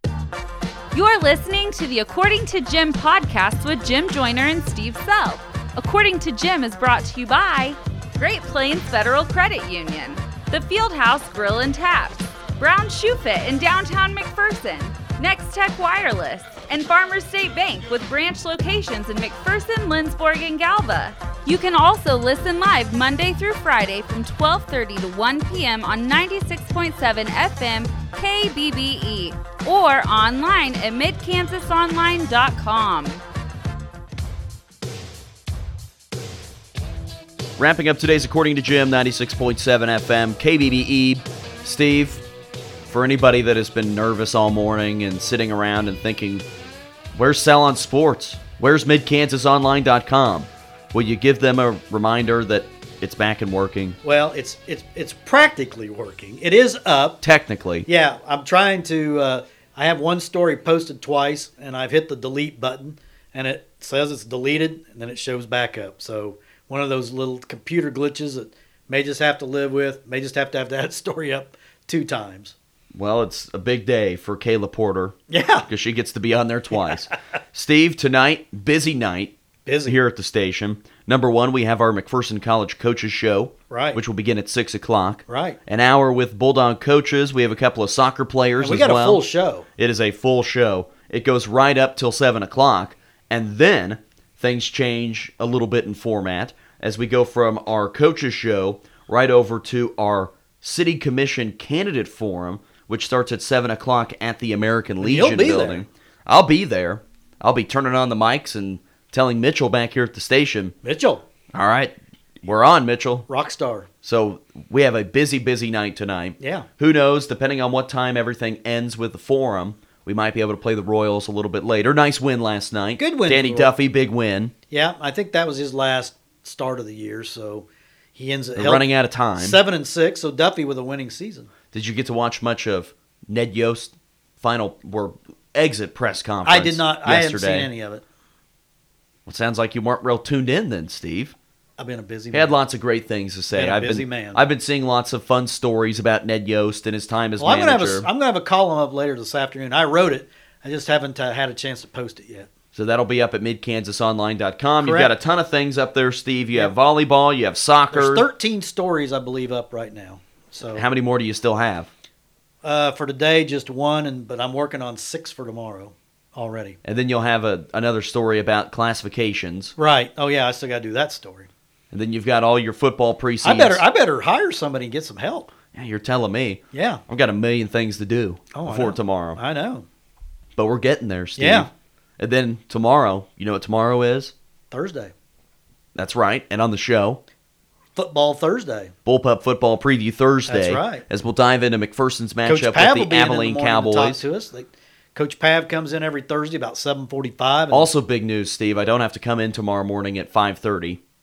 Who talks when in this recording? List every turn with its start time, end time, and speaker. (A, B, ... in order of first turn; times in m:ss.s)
0:00.9-0:33.2 A
0:37.6-0:42.2 B
0:42.8-0:46.4 B
0:47.1-0:54.0 B
0:54.0-0:57.2 C
0:57.2-0:57.9 B
0:57.9-1:12.5 C
1:12.9-1:15.2 B
1:15.3-1:15.7 C
1:15.7-1:19.3 B
1:19.6-1:20.0 C
1:19.8-1:29.2 B
1:23.7-1:24.0 C
1:25.3-1:25.6 C
1:28.6-1:29.6 C
1:29.8-1:50.7 B
1:45.0-1:45.8 C
1:50.8-1:51.2 C
1:51.5-1:53.3 B
1:53.3-1:53.9 C
1:54.0-2:04.5 B
1:56.4-1:56.7 C
2:03.0-2:03.7 C
2:04.7-2:08.8 C
2:08.6-2:09.6 B
2:09.3-2:11.5 C
2:11.7-2:17.7 B
2:16.4-2:18.0 C
2:19.2-2:21.3 B
2:21.8-2:22.5 C
2:22.3-2:28.1 B
2:23.5-2:24.4 C
2:27.4-2:32.5 C
2:32.7-2:38.3 B
2:34.8-2:35.1 C
2:37.9-2:40.8 C
2:40.7-2:41.9 B
2:42.6-2:46.8 C
2:46.8-2:49.7 B
2:49.8-2:51.5 C
2:51.9-2:53.8 B
2:53.4-2:55.5 C
2:55.7-2:59.4 B
2:56.7-2:57.0 C
2:58.5-2:59.8 C
3:00.6-3:04.3 B
3:01.4-3:01.7 C
3:04.7-3:05.1 C
3:05.9-3:07.2 B
3:07.9-3:08.9 C
3:09.0-3:14.2 B
3:10.5-3:11.0 C
3:12.4-3:17.9 C
3:17.7-3:21.0 B